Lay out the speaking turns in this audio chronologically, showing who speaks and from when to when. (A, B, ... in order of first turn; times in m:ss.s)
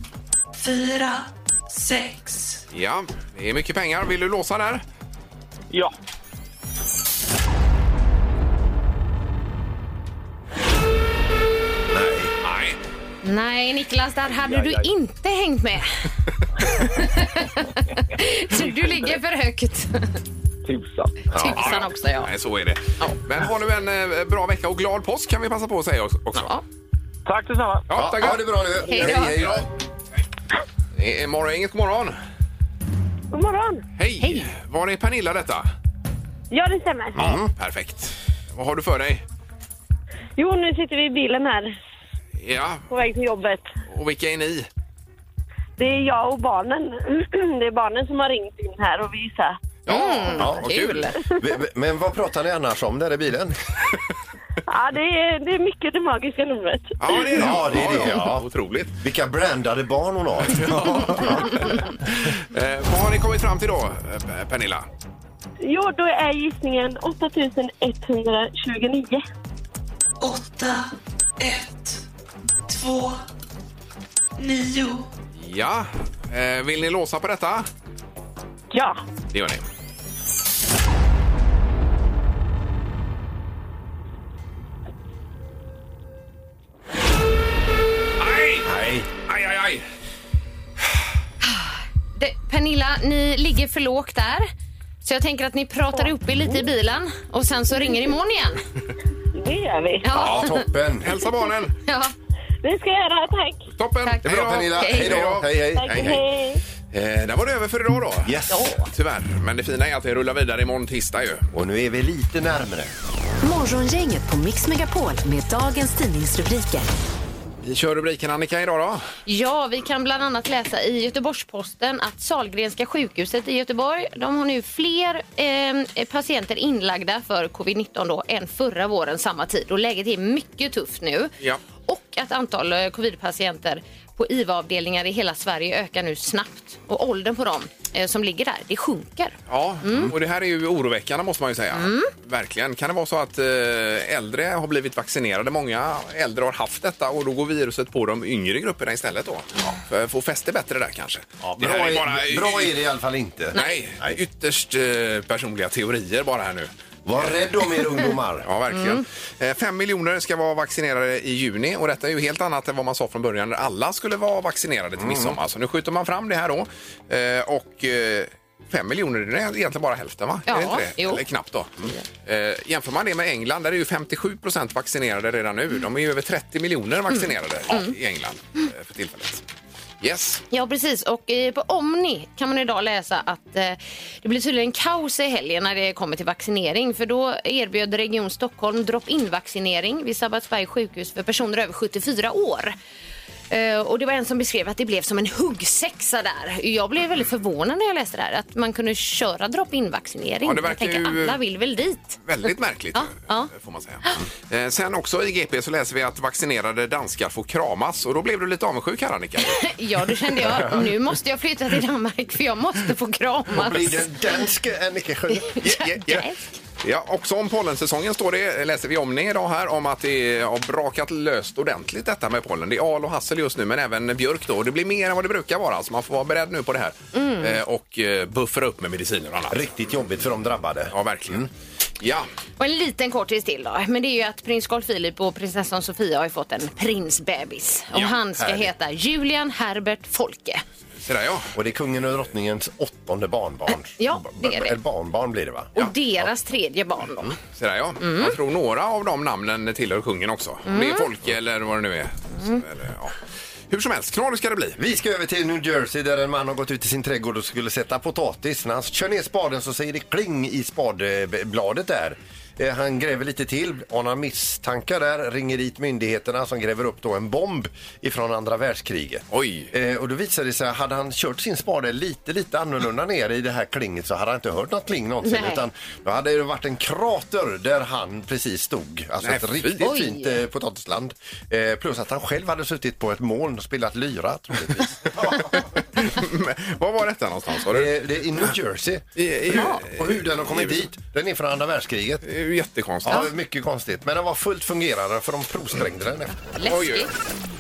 0:00.6-0:02.6 A
0:02.7-0:04.8 B
0:11.9-0:12.3 C
0:12.4-0:12.8 B
0:13.2-0:16.0 D
0:14.3-0:14.9 E
0:16.6-0:20.2 D
0:18.6-0:19.1 E
0:20.7-0:21.2 E
0:21.3-0:21.8 C
0:21.4-0:22.3 D
0:21.5-0:26.5 B
0:27.3-0:27.9 E
0:27.9-0:29.6 B
0:27.9-0:29.7 C
0:28.8-0:29.4 D
0:31.0-0:32.2 B
0:33.3-0:33.8 F
0:34.0-0:35.7 B
0:34.2-0:34.5 D
0:36.5-0:37.2 F
0:37.2-0:37.5 C
0:37.2-0:39.2 B
0:40.4-0:41.8 F
0:42.4-0:42.9 B
0:42.9-0:43.7 F
0:43.9-0:44.7 B
0:45.8-0:49.6 F
0:49.9-0:51.1 B
0:49.9-0:51.2 D
0:50.4-0:53.5 C
0:54.7-0:57.3 F
0:57.0-0:58.9 B
0:57.4-0:58.4 C
0:59.0-1:01.7 C
1:00.6-1:04.9 B
1:05.6-1:09.2 F
1:10.2-1:10.9 A
1:11.4-1:12.0 A
1:12.7-1:13.2 A
1:14.4-1:15.1 A
1:15.4-1:17.7 B
1:19.3-1:19.7 B
1:28.2-1:28.7 B
1:28.7-1:29.1 C
1:29.2-1:29.8 B
1:32.2-1:34.5 D
1:35.0-1:38.6 D
1:39.4-1:40.1 F
1:40.0-1:40.7 D
1:40.1-1:41.2 C
1:40.2-1:41.7 B
1:41.9-1:42.1 D
1:42.6-1:43.7 F
1:43.8-1:46.2 B
1:44.0-1:45.2 D
1:44.2-1:46.2 C
1:45.8-1:46.6 F
1:46.9-1:51.5 B
1:48.2-1:48.7 C
1:48.5-1:48.8 D
1:51.5-1:52.9 C
1:53.4-1:56.9 G
1:57.6-1:59.1 B
1:59.3-2:11.3 D
2:11.9-2:20.1 D
2:19.5-2:32.8 B
2:21.7-2:22.1 D
2:31.4-2:34.2 C
2:33.5-2:33.8 D
2:33.5-2:37.3 B
2:37.1-2:38.5 C
2:38.4-2:59.4 B
2:38.7-2:39.0 D
2:45.0-2:45.4 C
2:50.5-2:51.2 D
2:57.2-2:58.0 D
3:00.0-3:00.4 B
3:00.5-3:12.8 D
3:13.5-3:22.2 D
3:20.4-3:21.4 B
3:22.2-3:29.6 B
3:23.0-3:23.5 D
3:29.4-3:34.1 D
3:30.4-3:30.9 C
3:33.5-3:35.6 C
3:35.4-3:36.4 D
3:35.6-3:36.3 B
3:36.8-3:49.6 B
3:47.2-3:47.6 D
3:49.5-3:51.5 C
3:50.9-3:51.5 B
3:52.0-3:52.3 B
3:52.6-4:00.6 D
4:01.0-4:01.5 B
4:01.6-4:05.7 C
4:04.0-4:04.8 D
4:05.8-4:07.4 D
4:07.6-4:13.2 B
4:08.0-4:08.4 D
4:10.7-4:11.1 D
4:13.7-4:14.8 B
4:14.8-4:45.4 C
4:29.3-4:29.7 B
4:35.2-4:35.6 D
4:39.2-4:39.8 B
4:39.8-4:40.4 D
4:45.2-4:47.9 B
4:47.7-4:52.2 C
4:49.2-4:50.8 B
4:49.5-4:49.8 D
4:52.2-4:53.3 B
4:53.0-4:56.4 C
4:56.4-4:57.1 D
4:56.6-4:57.1 B